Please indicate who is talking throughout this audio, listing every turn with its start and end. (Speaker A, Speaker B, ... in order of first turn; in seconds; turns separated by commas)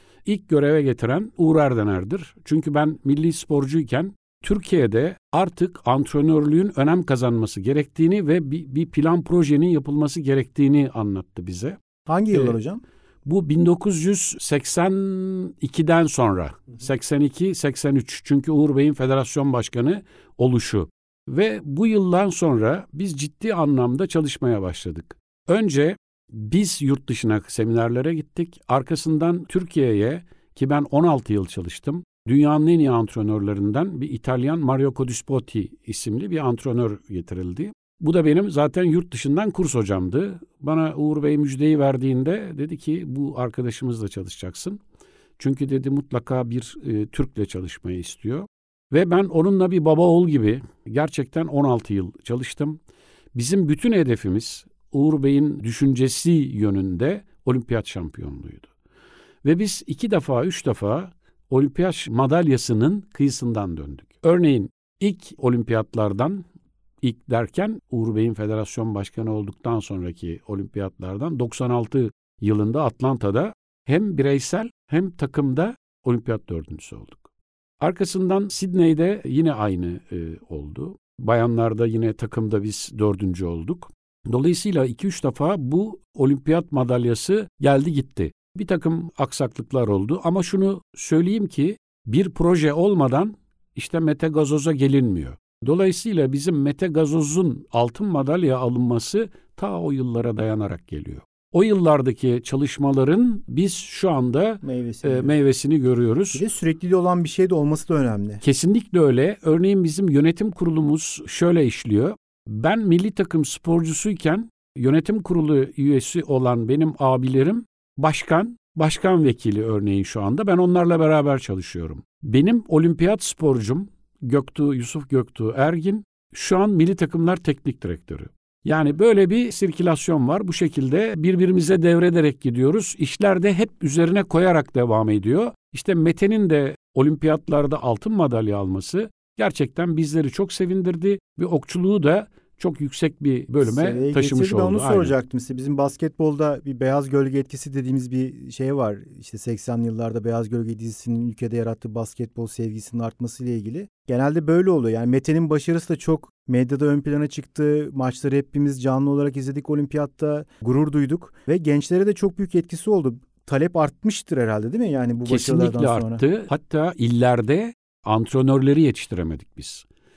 Speaker A: 0.2-11.8, Speaker B: 12.1-12.8, Speaker A: 12.3-12.6, Speaker A: 13.2-44.8, Speaker A: 45.4-52.8, Speaker A: 53.3-58.7, Speaker A: 59.4-66.4, Speaker A: 67.0-77.3, Speaker A: 77.8-106.4, Speaker B: 104.6-105.3, Speaker B: 106.3-108.4, Speaker A: 108.4-145.1, Speaker B: 143.6-166.2, Speaker A: 165.3-169.8